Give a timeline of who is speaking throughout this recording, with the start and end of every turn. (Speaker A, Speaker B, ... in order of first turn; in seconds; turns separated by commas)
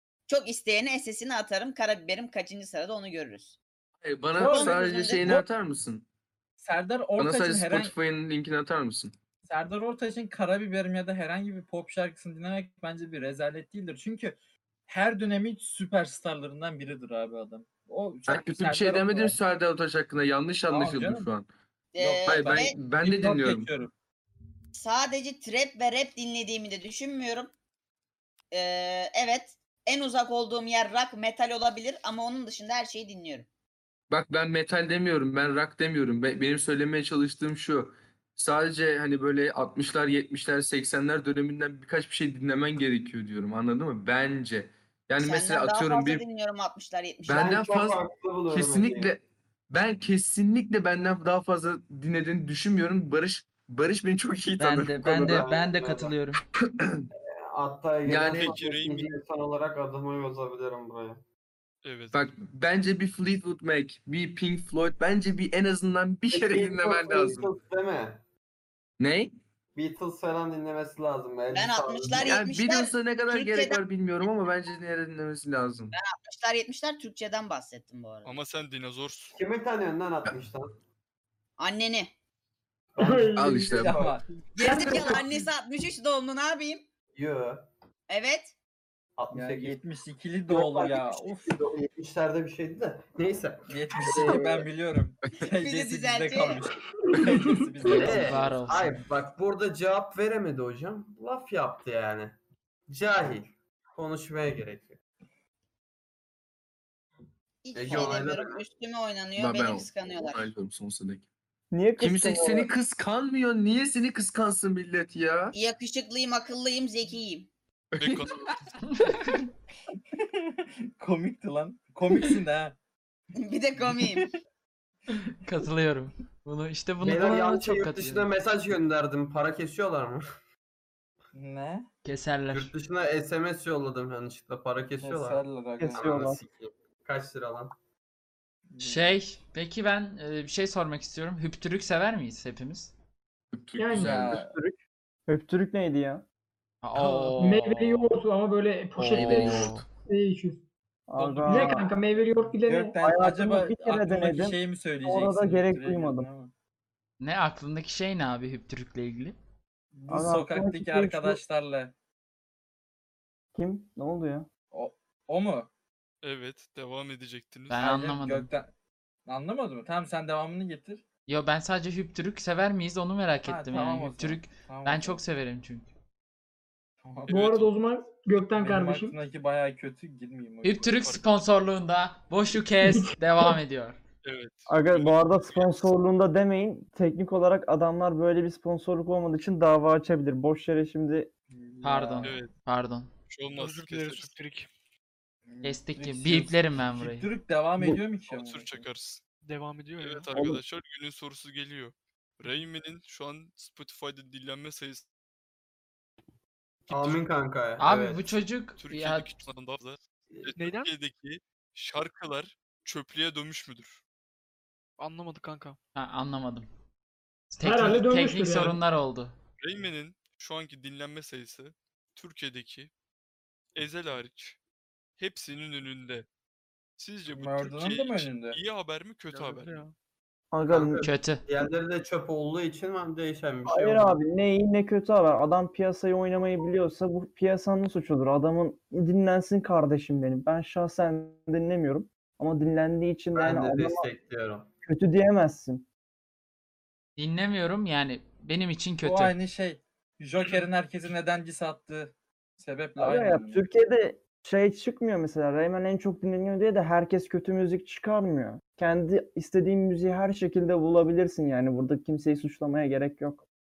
Speaker A: 0.3-3.6, Speaker B: 4.0-6.0, Speaker C: 4.3-5.4, Speaker A: 4.3-5.4, Speaker C: 6.6-7.9, Speaker B: 7.2-9.1, Speaker C: 9.5-14.3, Speaker C: 14.9-19.4, Speaker B: 18.3-21.5, Speaker C: 20.7-21.3, Speaker A: 21.9-22.8, Speaker C: 22.0-23.9, Speaker B: 22.2-23.7, Speaker A: 24.7-27.5, Speaker A: 28.5-33.5, Speaker B: 34.1-46.2, Speaker A: 45.2-47.5, Speaker B: 47.3-55.5, Speaker D: 47.3-49.1, Speaker E: 54.6-56.4, Speaker D: 55.2-56.1, Speaker B: 56.6-57.1, Speaker D: 57.5-61.2, Speaker B: 58.0-58.5, Speaker F: 58.3-59.1, Speaker F: 61.8-62.2, Speaker B: 62.1-67.5, Speaker D: 66.3-68.2, Speaker B: 69.0-69.3, Speaker D: 69.7-72.4, Speaker A: 71.5-73.8, Speaker B: 72.1-75.9, Speaker A: 75.9-78.3, Speaker F: 78.2-79.4, Speaker D: 79.3-80.8, Speaker A: 81.6-82.1, Speaker D: 82.9-84.2, Speaker G: 83.0-83.6, Speaker B: 83.3-85.3, Speaker C: 83.5-84.2, Speaker A: 84.5-86.9, Speaker G: 84.7-85.0, Speaker D: 87.1-87.7, Speaker A: 88.1-88.5, Speaker D: 89.2-89.8, Speaker C: 89.3-91.6, Speaker D: 90.5-94.7, Speaker C: 93.7-98.8, Speaker A: 95.6-96.6, Speaker G: 97.0-97.7, Speaker E: 97.8-99.0, Speaker D: 97.9-102.4, Speaker D: 102.9-105.0, Speaker A: 107.6-110.5, Speaker D: 107.7-108.6, Speaker B: 109.4-111.3, Speaker H: 111.7-112.7, Speaker B: 112.0-115.5, Speaker A: 115.5-117.5, Speaker B: 117.9-119.4, Speaker F: 118.0-119.1, Speaker C: 120.2-122.8, Speaker A: 123.3-124.3, Speaker C: 123.9-124.3, Speaker E: 125.4-128.3, Speaker D: 127.0-130.2, Speaker C: 131.3-131.9, Speaker E: 132.0-132.7, Speaker D: 132.5-137.7, Speaker C: 135.0-136.2, Speaker H: 135.8-136.4, Speaker C: 138.7-139.2, Speaker E: 138.8-142.9, Speaker B: 143.5-144.4, Speaker G: 143.8-144.2, Speaker C: 143.9-144.5, Speaker H: 144.3-146.2, Speaker E: 146.8-148.1, Speaker C: 146.9-147.5, Speaker G: 147.4-150.6, Speaker B: 149.0-149.9, Speaker E: 149.1-149.7, Speaker H: 151.1-151.9, Speaker G: 151.2-153.0, Speaker C: 152.6-156.5, Speaker H: 153.0-156.3, Speaker E: 157.2-159.3, Speaker C: 159.9-161.9, Speaker H: 160.1-161.4, Speaker H: 163.5-164.5, Speaker C: 164.7-165.7, Speaker F: 166.2-167.8, Speaker E: 167.7-168.5, Speaker C: 167.7-168.7, Speaker C: 169.2-171.0, Speaker E: 171.3-175.9, Speaker C: 173.4-175.2, Speaker C: 177.0-177.4, Speaker F: 177.3-177.7, Speaker G: 177.3-179.2, Speaker C: 178.6-181.0, Speaker E: 180.6-184.0, Speaker F: 181.0-181.4, Speaker G: 182.8-183.1, Speaker F: 184.2-185.9, Speaker H: 184.7-191.3, Speaker C: 191.5-192.3, Speaker E: 191.8-193.1, Speaker F: 192.2-192.5, Speaker F: 193.3-194.4, Speaker I: 193.5-194.7, Speaker C: 195.5-198.8, Speaker E: 195.6-197.3, Speaker F: 198.3-199.2, Speaker I: 199.4-200.3, Speaker F: 200.0-205.0, Speaker H: 200.3-200.6, Speaker D: 206.9-208.3, Speaker E: 207.8-209.3, Speaker F: 208.8-214.0, Speaker I: 210.6-210.9, Speaker I: 215.0-215.8, Speaker E: 215.9-216.7, Speaker E: 217.5-219.3, Speaker G: 217.6-218.8, Speaker F: 219.6-222.9, Speaker F: 223.7-224.6, Speaker F: 225.2-226.3, Speaker F: 227.0-229.9, Speaker C: 227.3-228.6, Speaker I: 229.3-229.9, Speaker H: 230.5-231.0, Speaker D: 230.7-234.2, Speaker E: 231.0-231.4, Speaker H: 233.7-244.1, Speaker D: 243.3-244.7, Speaker H: 244.8-245.8, Speaker E: 247.2-249.3, Speaker C: 249.0-253.6, Speaker H: 253.0-263.4